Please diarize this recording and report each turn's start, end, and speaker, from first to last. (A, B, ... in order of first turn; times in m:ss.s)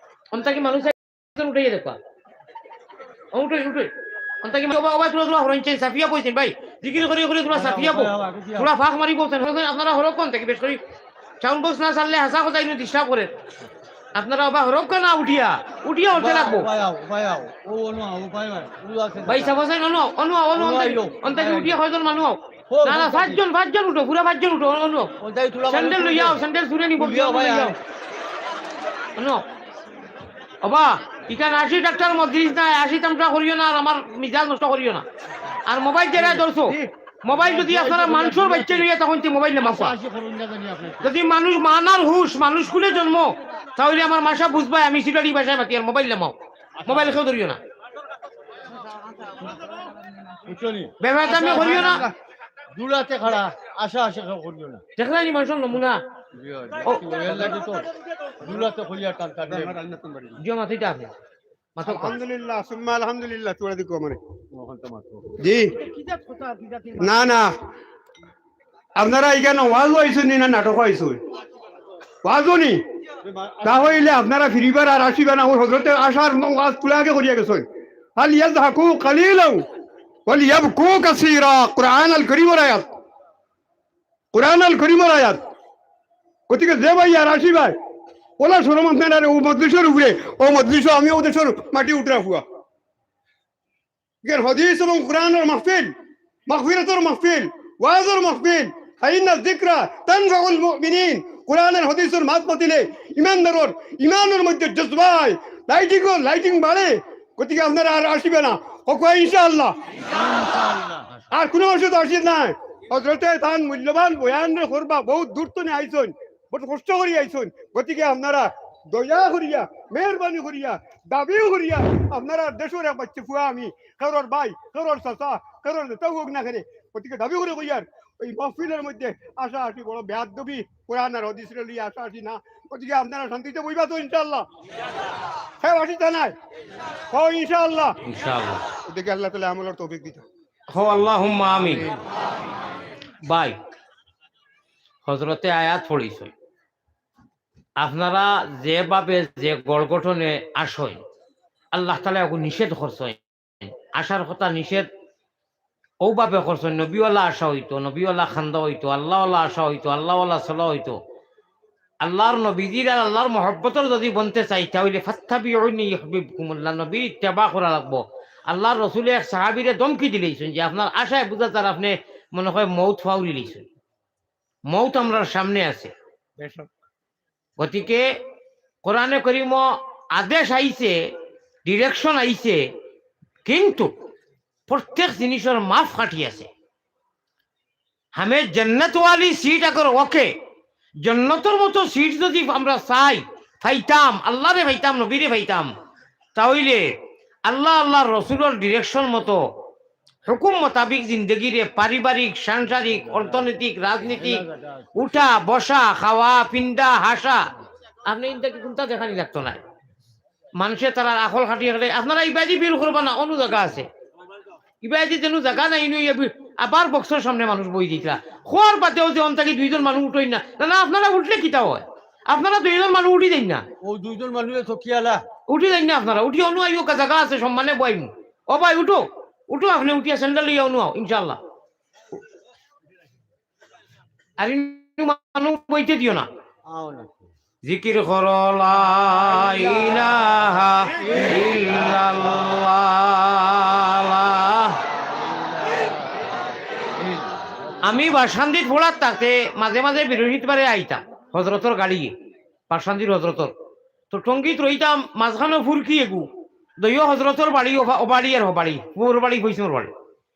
0:00.3-0:02.0 A
0:03.3-0:03.9 A
0:04.4-0:10.8 A
0:07.5-0:08.7 B
0:11.4-0:13.3 A
0:14.1-0:16.7 A
0:16.1-0:19.5 B
0:19.3-0:25.1 A
0:20.5-0:21.8 B
0:22.7-0:23.4 B
0:25.2-0:26.4 B
0:25.7-0:27.8 A
0:27.0-0:27.8 B
0:29.2-0:29.4 A
0:30.6-0:35.0 A
0:35.6-0:40.0 A
0:36.2-0:38.9 B
0:39.6-0:41.1 B
0:41.0-0:46.3 A
0:46.8-0:47.2 B
0:46.8-0:47.6 A
0:50.4-0:52.1 B
0:51.0-0:52.1 A
0:51.6-0:52.1 C
0:52.7-0:54.8 B
0:55.0-0:56.0 A
0:56.4-0:57.9 B
0:58.4-0:59.8 B
0:59.5-1:00.4 C
1:00.4-1:01.1 A
1:01.8-1:02.2 A
1:01.8-1:04.2 C
1:04.5-1:05.3 B
1:05.4-1:05.7 C
1:05.8-1:07.3 A
1:07.0-1:07.5 C
1:09.0-1:11.2 C
1:12.2-1:12.8 C
1:13.2-1:14.1 B
1:13.6-1:19.6 C
1:20.3-1:22.9 C
1:24.3-1:25.4 C
1:26.5-1:27.7 C
1:28.4-1:32.4 C
1:34.2-1:35.9 C
1:36.5-1:49.7 C
1:50.1-1:51.2 B
1:51.3-2:14.5 C
2:15.6-2:16.3 C
2:17.1-2:18.0 C
2:18.0-2:18.6 A
2:18.9-2:20.2 C
2:20.7-2:21.9 A
2:23.2-2:23.6 A
2:25.0-2:26.3 A
2:27.8-2:31.0 A
2:31.7-2:34.9 A
2:36.0-2:41.0 A
2:42.0-2:53.6 A
2:54.7-2:55.9 A
2:56.4-2:56.7 C
2:57.6-2:58.0 A
2:58.8-3:01.0 A
3:01.6-3:02.6 A
3:03.4-3:03.9 A
3:04.7-3:06.5 A
3:08.1-3:10.3 A
3:11.0-3:15.7 A
3:16.3-3:16.9 A
3:17.4-3:19.4 A
3:20.3-3:27.4 A
3:24.2-3:24.9 B
3:28.0-3:29.6 A
3:30.6-3:33.9 A
3:34.8-3:43.6 A
3:43.8-3:45.2 B
3:45.5-3:51.4 A
3:54.4-3:56.3 A
3:56.7-3:57.1 B
3:57.6-4:04.8 A
4:05.2-4:05.9 B
4:07.0-4:07.4 B
4:07.8-4:12.1 A
4:12.7-4:13.5 A
4:14.1-4:16.3 A
4:16.8-4:19.9 A